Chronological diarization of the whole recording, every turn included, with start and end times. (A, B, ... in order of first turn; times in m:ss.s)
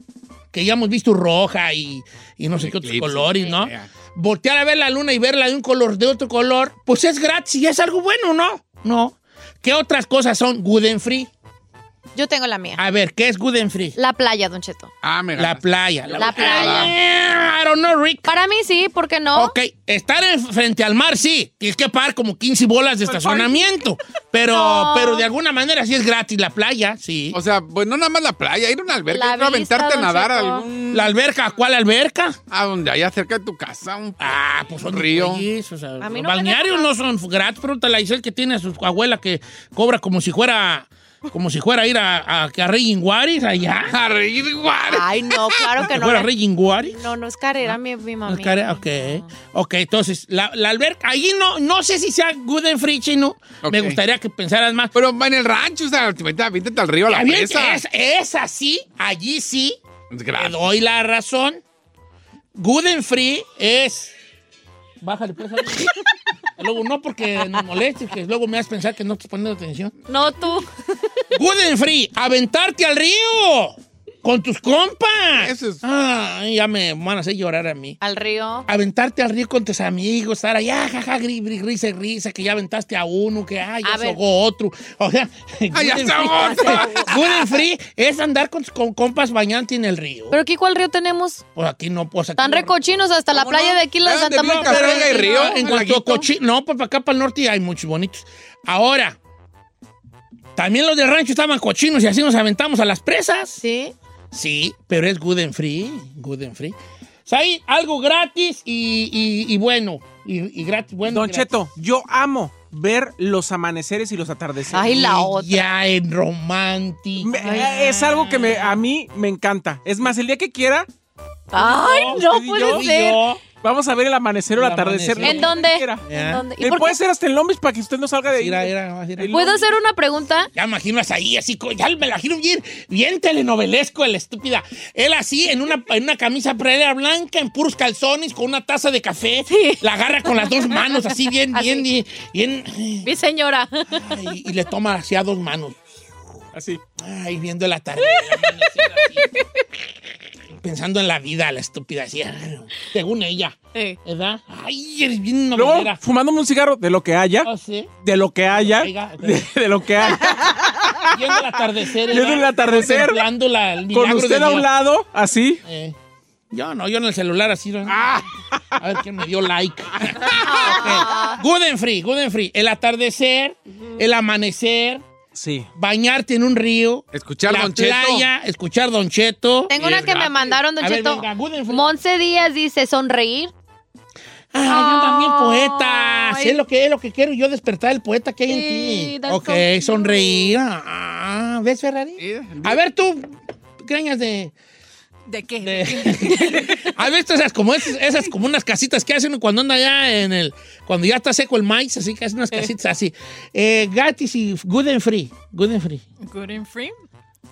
0:00.5-0:11.3 A
0:02.5-0:03.9 B
0:12.1-0:12.8 C
0:12.8-0:14.0 A
0:14.0-0:14.9 C
0:15.0-0:16.9 B
0:15.4-0:18.3 A
0:16.2-0:16.9 C
0:18.2-0:19.5 C
0:19.3-0:27.4 A
0:23.1-0:23.5 D
0:24.5-0:25.2 C
0:27.3-0:31.1 B
0:29.1-0:30.7 C
0:30.9-0:32.4 A
0:32.5-0:35.4 B
0:34.2-0:44.0 A
0:36.0-0:36.9 C
0:43.9-0:45.7 B
0:44.9-0:46.3 C
0:45.8-0:47.0 A
0:46.9-0:49.3 C
0:48.3-0:54.9 A
0:53.6-0:54.0 B
0:54.9-0:57.8 B
0:57.1-0:59.8 A
1:00.1-1:00.6 B
1:00.4-1:01.6 A
1:02.6-1:04.1 A
1:05.0-1:06.0 A
1:06.6-1:09.9 A
1:10.1-1:10.7 C
1:11.3-1:18.0 A
1:15.4-1:15.8 B
1:18.0-1:18.7 C
1:18.7-1:30.4 A
1:23.8-1:24.2 C
1:25.7-1:27.6 B
1:26.2-1:27.1 C
1:30.3-1:31.4 C
1:31.5-1:32.8 A
1:32.4-1:35.7 C
1:33.4-1:36.3 B
1:34.3-1:39.2 A
1:40.6-1:43.6 A
1:43.6-1:43.9 C
1:44.3-1:51.5 A
1:51.0-1:54.9 D
1:54.7-1:58.8 A
1:54.7-1:55.7 C
1:57.2-2:00.9 D
1:57.4-1:57.7 C
2:01.5-2:03.2 C
2:01.5-2:03.4 A
2:02.2-2:02.8 D
2:03.6-2:06.0 D
2:04.5-2:05.6 A
2:05.2-2:07.0 C
2:06.1-2:06.4 A
2:06.6-2:09.5 D
2:08.3-2:09.6 A
2:09.3-2:10.5 C
2:10.5-2:23.1 A
2:19.5-2:19.8 C
2:21.5-2:21.8 C
2:23.0-2:24.1 C
2:23.9-2:25.8 A
2:26.5-2:26.8 D
2:27.0-2:29.4 A
2:30.6-2:36.0 A
2:33.7-2:34.0 C
2:35.5-2:37.5 D
2:37.4-2:37.9 A
2:38.0-2:43.3 D
2:38.5-2:39.4 A
2:41.1-2:44.7 A
2:43.9-2:45.6 D
2:45.6-2:46.0 A
2:46.5-2:48.1 A
2:48.0-2:48.2 B
2:48.5-2:48.8 D
2:48.8-2:55.0 A
2:50.4-2:51.4 C
2:55.3-2:55.7 D
2:55.8-2:59.8 A
2:57.1-2:58.3 B
2:59.7-3:03.5 C
2:59.8-3:00.6 B
3:00.8-3:01.9 A
3:04.5-3:14.5 A
3:04.7-3:06.6 C
3:08.5-3:10.5 C
3:12.2-3:12.8 B
3:15.3-3:16.6 E
3:15.6-3:26.0 A
3:26.2-3:26.9 E